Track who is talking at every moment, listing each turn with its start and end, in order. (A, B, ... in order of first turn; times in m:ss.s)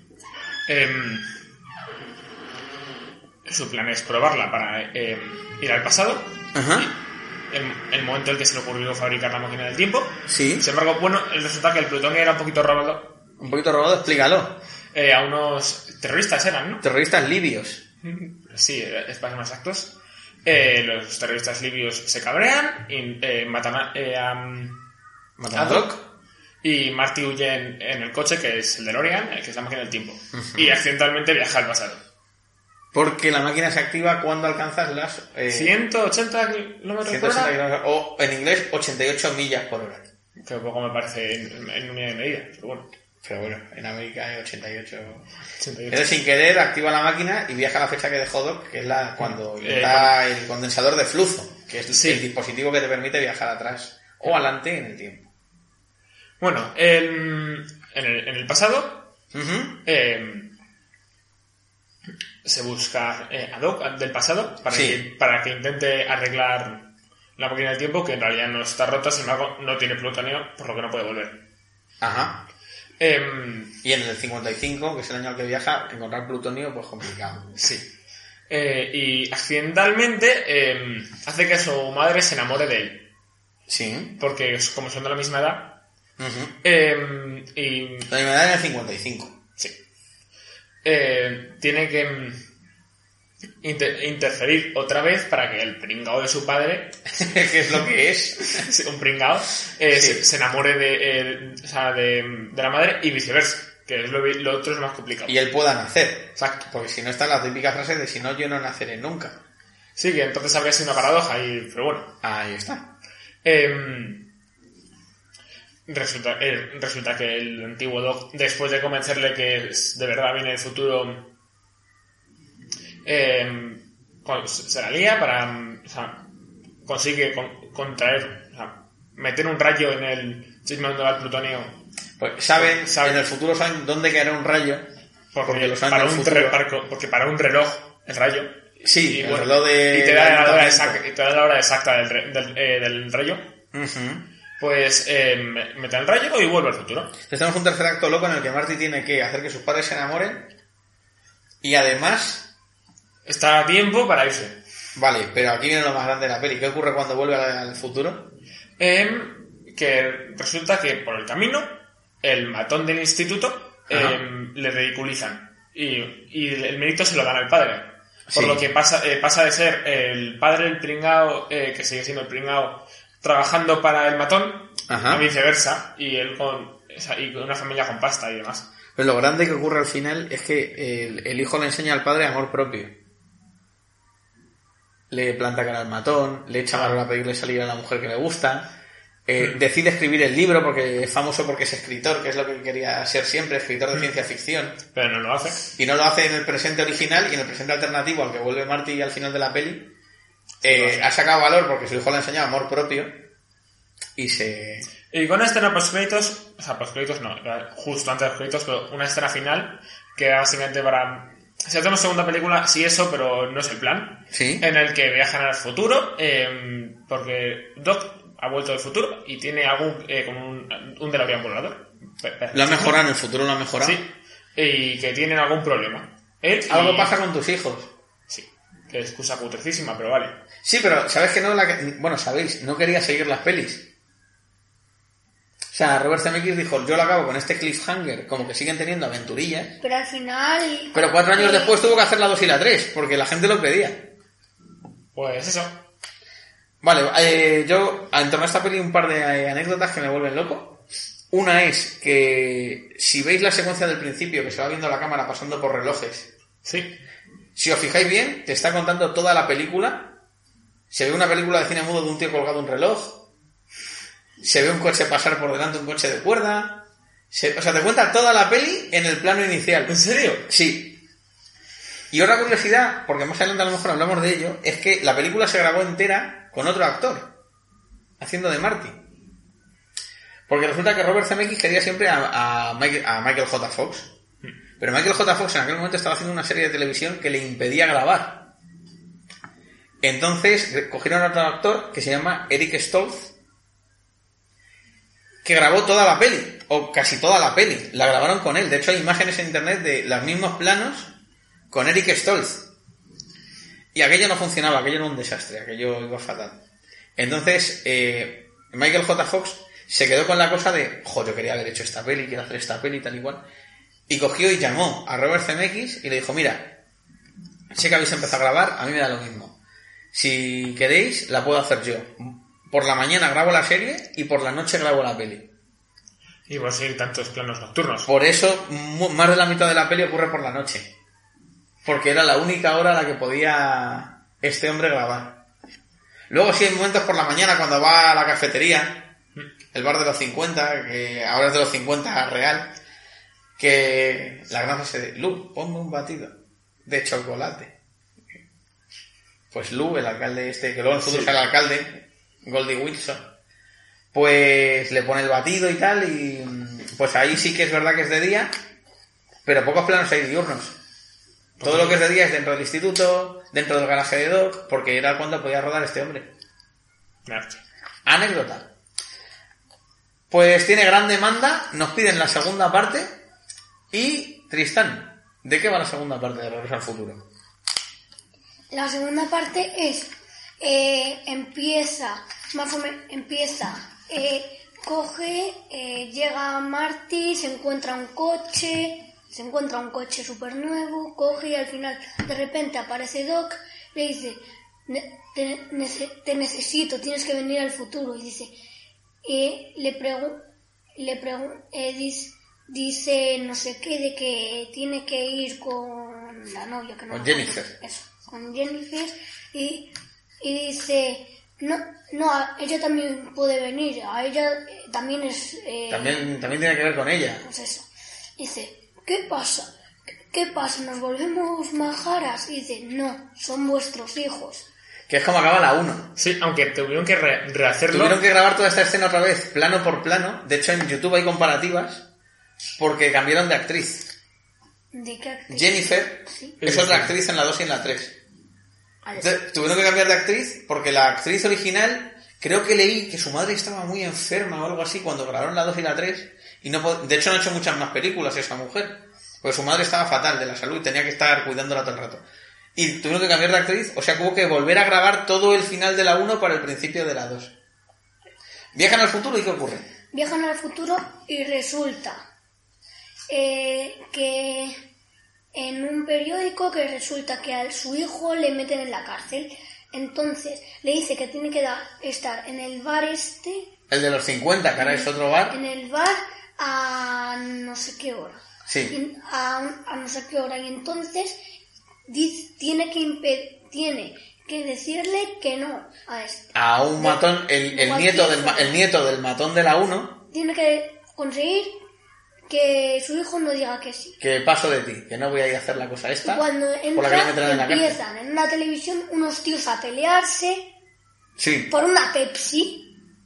0:00.7-0:01.2 A
0:03.4-0:07.0 A
0:06.5-0:06.9 B
0:07.5-0:13.2 A
0:10.3-0:10.6 B
0:13.4-0:14.6 B
0:14.9-0:16.8 A
0:16.8-0:17.8 B
0:18.0-0:24.8 A
0:25.4-0:26.0 B
0:25.5-0:26.0 A
0:26.6-0:32.0 A
0:30.4-0:30.8 B
0:32.9-0:35.8 B
0:35.5-0:37.6 A
0:37.0-0:40.0 B
0:40.4-0:42.9 A
0:43.2-0:45.2 B
0:45.6-0:46.1 A
0:45.9-0:55.3 B
0:49.2-0:50.1 A
0:51.9-0:52.2 A
0:56.4-0:59.1 A
0:59.3-0:59.8 B
0:59.8-1:00.5 A
1:02.4-1:11.4 A
1:04.7-1:05.0 B
1:12.0-1:12.4 B
1:13.0-1:13.8 A
1:13.8-1:17.6 B
1:17.6-1:17.9 A
1:18.5-1:23.1 A
1:23.7-1:24.2 B
1:24.2-1:25.8 A
1:26.2-1:26.6 B
1:26.6-1:28.1 A
1:28.1-1:29.4 B
1:30.8-1:32.4 A
1:33.6-1:37.0 A
1:37.1-1:38.6 B
1:38.5-1:45.4 A
1:39.9-1:40.2 B
1:45.3-1:49.4 B
1:46.4-1:46.6 A
1:50.0-1:52.1 A
1:52.2-1:52.9 B
1:53.4-1:54.2 A
1:55.9-2:01.3 A
2:03.0-2:06.2 A
2:06.8-2:11.8 A
2:12.2-2:14.9 B
2:12.6-2:13.2 A
2:15.3-2:23.4 A
2:15.4-2:16.6 B
2:18.8-2:21.0 B
2:23.7-2:24.2 B
2:24.6-2:27.1 A
2:27.2-2:30.5 B
2:31.6-2:32.5 B
2:33.2-2:34.6 A
2:35.0-2:38.3 B
2:38.8-2:58.7 A
2:43.9-2:44.2 B
2:48.3-2:48.6 B
2:54.9-2:55.2 B
2:59.0-3:02.9 B
3:05.1-3:08.7 B
3:06.7-3:07.0 A
3:09.3-3:14.8 B
3:14.9-3:15.7 A
3:15.8-3:19.9 B
3:20.6-3:21.0 A
3:20.6-3:23.2 B
3:24.2-3:24.9 B
3:25.1-3:43.0 A
3:34.3-3:34.6 B
3:42.5-3:44.0 B
3:43.8-3:47.1 A
3:46.7-3:47.9 B
3:48.3-3:50.4 A
3:50.6-3:53.8 B
3:55.7-3:59.8 B
3:59.8-4:01.9 C
4:00.9-4:04.1 B
4:05.1-4:05.8 A
4:06.8-4:16.3 B
4:16.6-4:17.0 A
4:17.6-4:20.1 B
4:20.9-4:23.2 B
4:24.4-4:31.0 B
4:29.9-4:30.4 A
4:32.1-4:37.3 B
4:38.2-4:39.0 B
4:40.5-4:44.1 B
4:44.8-4:48.5 B
4:50.0-4:53.3 B
4:55.4-5:01.1 B
5:01.7-5:02.7 B
5:03.9-5:06.6 B
5:07.2-5:13.4 B
5:14.1-5:16.8 B
5:17.7-5:19.6 B
5:20.1-5:25.5 B
5:26.5-5:28.1 A
5:28.1-5:30.9 B
5:31.8-5:35.4 B
5:36.3-5:39.1 B
5:39.7-5:42.7 B
5:43.6-5:46.3 B
5:46.8-5:47.7 B
5:49.5-5:53.3 B
5:51.0-5:51.3 A
5:54.1-5:58.5 B
5:59.4-6:00.7 B
6:01.6-6:02.0 A
6:01.6-6:06.3 B
6:07.2-6:07.6 A
6:08.0-6:08.7 B
6:10.3-6:13.2 B
6:13.9-6:17.2 B
6:18.7-6:38.5 C
6:39.2-6:40.4 C
6:41.0-6:56.3 C
6:47.1-6:47.7 B
6:55.9-6:57.4 B
6:57.4-6:57.9 C
6:58.4-6:59.7 C
7:00.3-7:04.6 C
7:05.1-7:06.1 B
7:06.2-7:08.2 A
7:07.9-7:12.0 B
7:12.8-7:14.1 B
7:14.9-7:16.6 C
7:15.5-7:18.2 B
7:16.6-7:17.1 A
7:19.0-7:19.3 C
7:19.2-7:32.2 B
7:32.8-7:37.5 B
7:38.7-7:39.9 B
7:40.1-7:42.2 C
7:43.3-7:44.8 C
7:45.5-7:53.7 C
7:53.9-7:55.6 B
7:54.8-8:01.4 C
7:58.6-7:59.0 B
8:02.1-8:08.8 C
8:06.5-8:10.2 B
8:10.3-8:11.7 C
8:12.5-8:14.2 C
8:14.2-8:16.4 B
8:16.2-8:20.7 C
8:16.9-8:18.0 B
8:21.4-8:21.7 B
8:21.7-8:22.9 C